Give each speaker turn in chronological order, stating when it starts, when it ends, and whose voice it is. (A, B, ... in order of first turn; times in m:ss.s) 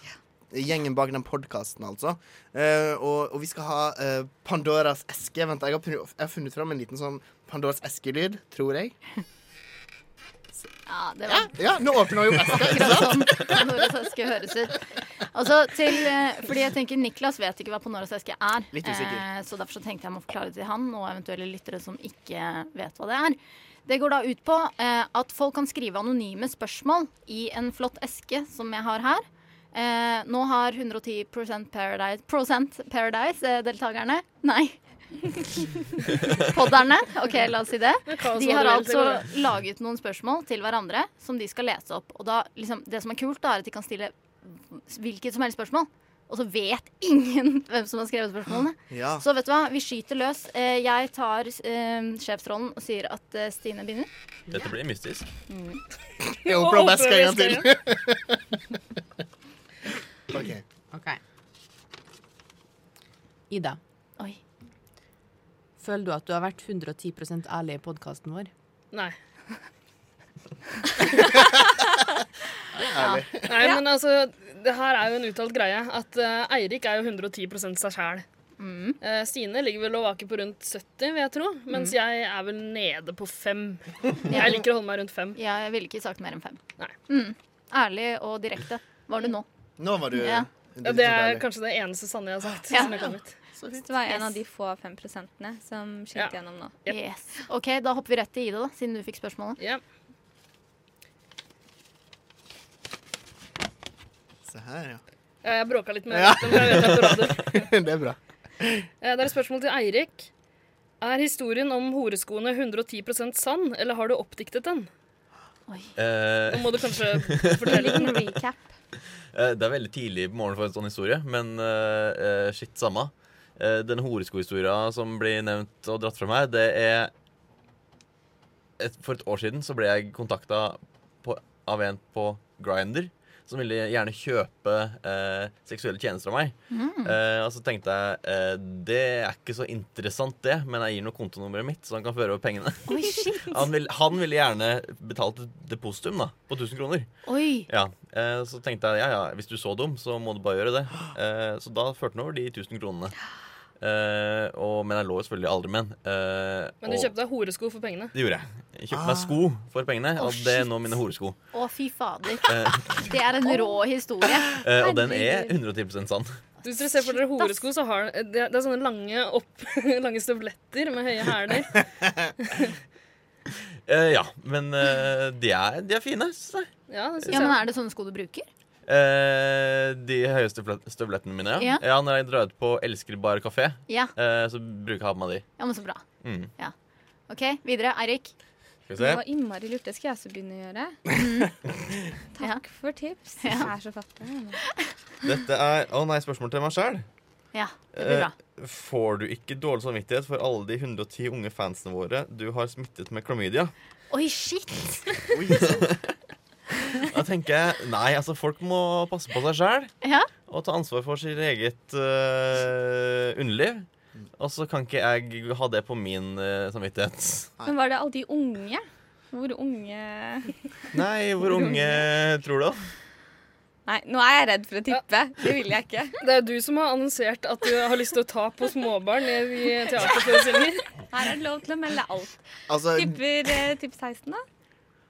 0:00.5-0:09.0 A
0:10.9-0:11.6 B
0:11.3-0:13.6 A
0:12.3-0:54.1 B
0:18.7-0:19.2 A
0:38.1-0:39.2 C
0:48.9-0:49.2 A
0:54.5-0:55.3 D
0:55.5-0:55.8 B
0:56.4-0:57.7 C
0:56.4-0:58.6 A
1:00.3-1:00.6 A
1:00.9-1:01.2 E
1:03.5-1:03.8 E
1:05.8-1:08.5 E
1:12.8-1:13.6 A
1:13.0-1:13.2 B
1:13.5-1:18.2 C
1:18.6-1:19.0 B
1:19.0-1:25.4 C
1:24.3-1:24.6 B
1:25.4-1:29.5 B
1:29.8-1:31.5 A
1:30.1-1:30.5 B
1:30.8-1:33.4 C
1:33.6-1:33.8 A
1:33.8-1:36.8 F
1:34.0-1:34.4 B
1:36.2-1:37.0 C
1:36.9-1:39.6 B
1:44.5-1:45.0 A
1:45.4-1:47.7 C
1:46.1-1:48.9 A
1:49.0-1:50.3 C
1:51.0-1:54.9 C
1:55.7-1:55.9 B
1:56.0-1:58.1 D
1:56.5-1:58.1 C
1:57.7-1:58.6 F
1:59.3-2:07.1 D
2:08.8-2:27.1 D
2:16.7-2:17.2 B
2:22.9-2:23.6 B
2:27.2-2:27.7 B
2:27.7-2:33.2 D
2:33.8-2:37.1 D
2:36.8-2:38.1 C
2:38.1-2:41.4 D
2:38.9-2:39.3 A
2:40.2-2:40.7 B
2:41.5-2:44.6 B
2:42.5-2:42.9 D
2:44.6-2:46.3 D
2:44.8-2:45.6 F
2:46.6-2:52.7 C
2:46.7-2:47.6 B
2:53.9-2:56.7 D
2:56.9-2:57.6 C
2:57.3-2:58.5 B
2:58.9-3:05.4 D
3:01.6-3:01.8 B
3:03.9-3:04.1 B
3:05.6-3:06.0 B
3:06.2-3:06.5 D
3:07.3-3:08.3 B
3:08.9-3:09.2 D
3:09.0-3:11.2 F
3:12.3-3:14.7 F
3:13.4-3:13.7 B
3:15.2-3:17.1 D
3:17.5-3:18.3 B
3:17.9-3:23.7 D
3:24.1-3:25.3 B
3:25.3-3:25.8 A
3:25.7-3:26.1 D
3:26.9-3:29.9 D
3:30.0-3:30.3 B
3:30.5-3:33.9 D
3:34.4-3:37.7 D
3:37.7-3:40.9 F
3:40.9-3:42.8 D
3:41.5-3:41.9 F
3:43.9-3:46.2 F
3:46.2-3:50.9 C
3:51.1-3:52.4 F
3:52.7-3:53.2 A
3:52.9-3:54.4 F